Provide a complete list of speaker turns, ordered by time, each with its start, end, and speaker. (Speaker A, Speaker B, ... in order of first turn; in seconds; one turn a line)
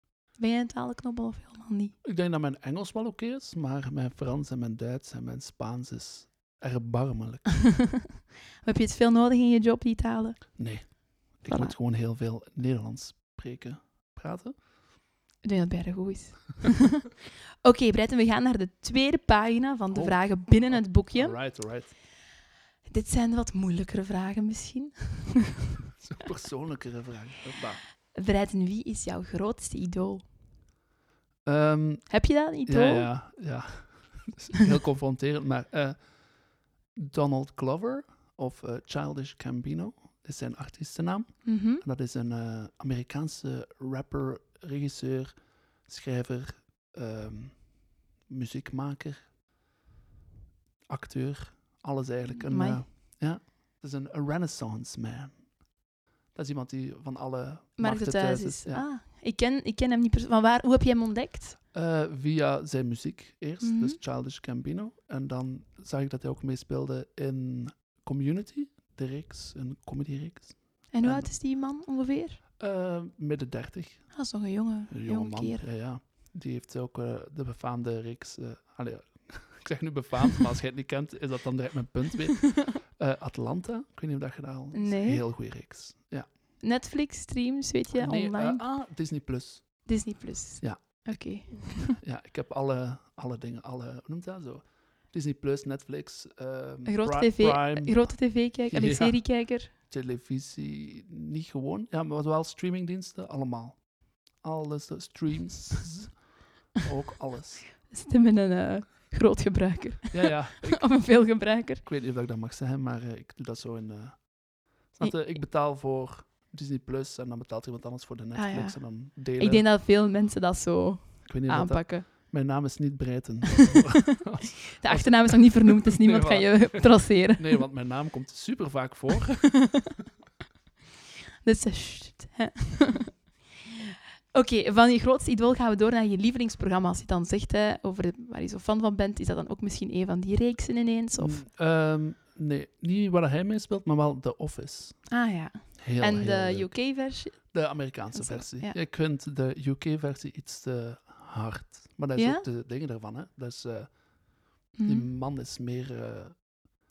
Speaker A: 0.4-1.9
Speaker B: 2.0-7.5
Speaker A: 7.6-8.1
Speaker A: 8.6-10.9
Speaker B: 10.6-14.6
Speaker A: 11.4-11.7
Speaker A: 15.4-17.0
Speaker A: 17.6-21.4
Speaker B: 19.9-21.9
Speaker A: 22.9-25.7
Speaker B: 25.9-27.8
Speaker A: 28.1-30.2
Speaker B: 31.4-47.7
Speaker A: 32.1-33.1
Speaker A: 41.4-41.8
Speaker B: 48.2-49.3
Speaker B: 50.9-55.4
Speaker A: 52.4-52.8
Speaker B: 56.3-58.9
Speaker A: 57.8-61.6
Speaker B: 61.7-71.3
Speaker A: 63.6-64.0
Speaker A: 70.9-72.4
Speaker B: 72.6-74.1
Speaker A: 74.1-75.6
Speaker B: 74.9-86.3
Speaker A: 84.7-85.2
Speaker A: 86.6-88.6
Speaker B: 87.9-90.0
Speaker A: 89.8-92.0
Speaker B: 90.6-107.7
Speaker A: 96.8-99.7
Speaker A: 107.9-111.8
Speaker B: 110.1-111.0
Speaker B: 111.8-119.7
Speaker A: 118.3-122.1
Speaker B: 121.2-129.9
Speaker A: 124.7-127.6
Speaker A: 131.4-141.4
Speaker B: 141.2-145.2
Speaker A: 145.1-148.8
Speaker B: 145.8-154.2
Speaker A: 152.1-152.4
Speaker A: 154.7-155.1
Speaker B: 154.8-156.6